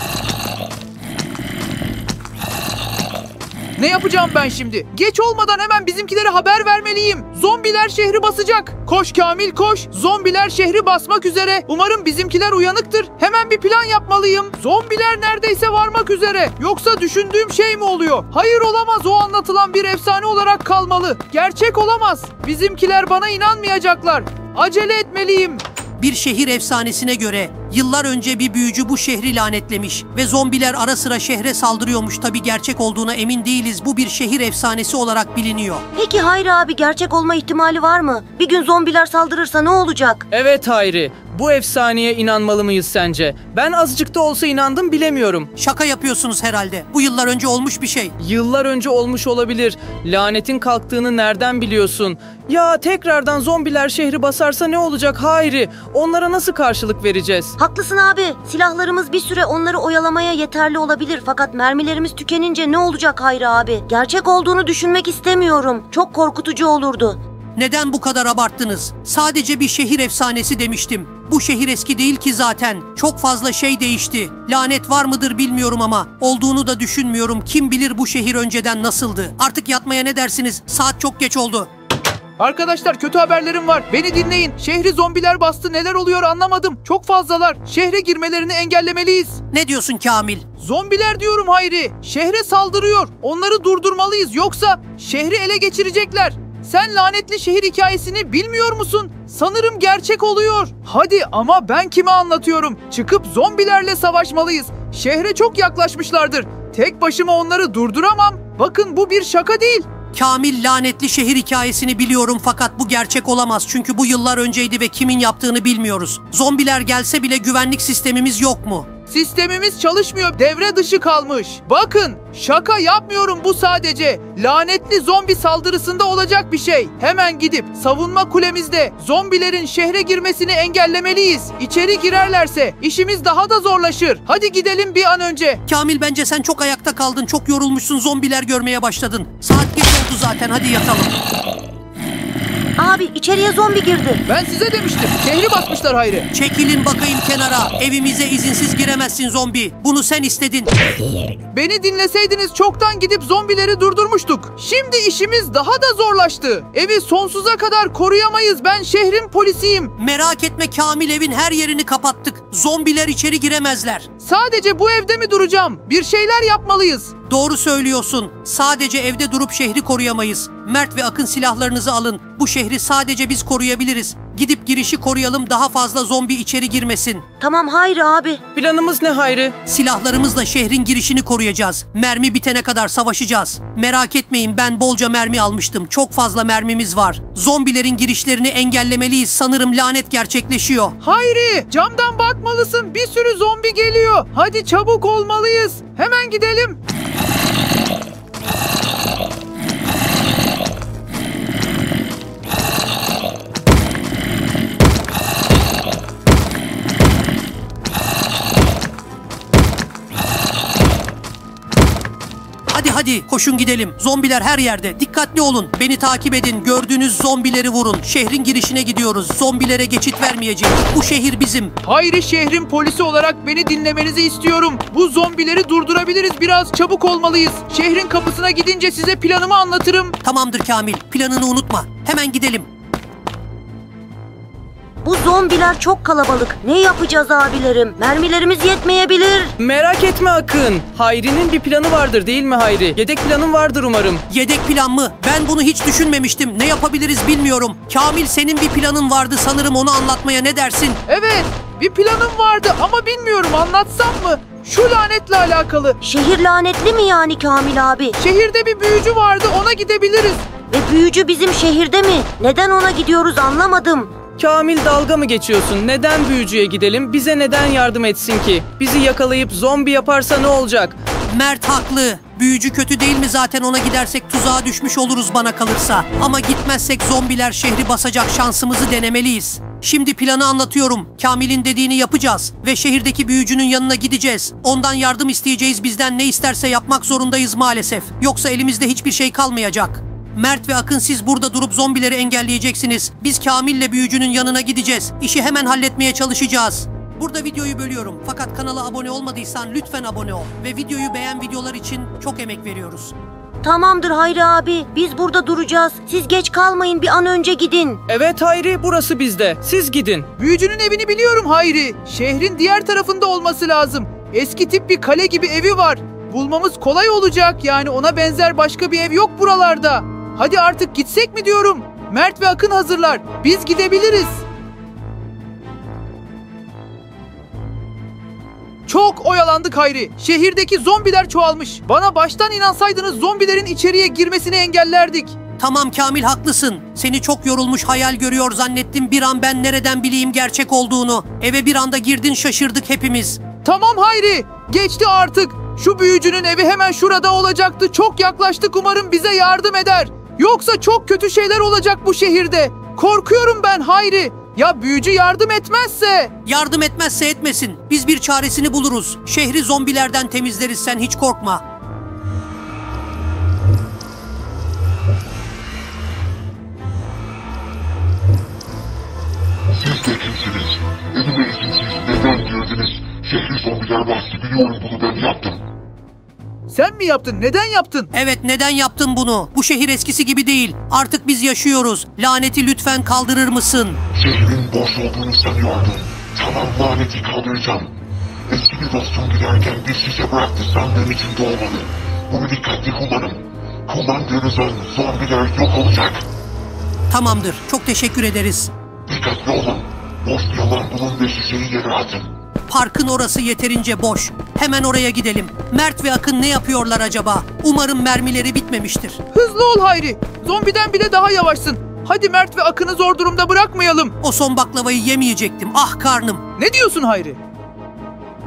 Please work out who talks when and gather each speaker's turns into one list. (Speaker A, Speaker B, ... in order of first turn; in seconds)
Speaker A: 3.8-25.6, 82.4-89.4, 90.6-109.8, 119.1-135.6, 144.3-146.3, 151.5-159.9, 164.2-167.1, 191.0-196.8, 221.8-230.1, 251.1-256.0, 258.2-260.4, 310.4-324.4, 328.9-335.3, 343.6-356.3, 376.7-378.1, 409.3-414.1, 416.6-417.4
Speaker B: 26.0-35.8, 45.6-48.1, 67.5-81.7, 89.5-90.4, 110.1-118.9, 135.7-141.1, 146.3-150.7, 160.0-164.1, 167.2-177.2, 179.7-190.9, 212.7-221.7, 230.2-232.7, 244.3-251.0, 271.3-303.1, 335.6-343.4, 356.4-361.6, 378.1-384.0, 397.1-398.7, 402.7-409.2, 414.2-416.4
Speaker C: 36.0-40.2, 57.6-67.2, 142.8-144.2, 177.4-178.4, 235.0-239.5, 256.0-258.1, 260.7-264.1, 303.6-308.0
Speaker D: 40.3-45.5, 48.2-57.5, 178.5-179.5, 239.6-244.2, 264.4-271.0, 308.1-310.3
Speaker E: 369.7-375.6, 384.1-387.9, 388.5-396.2, 399.1-402.3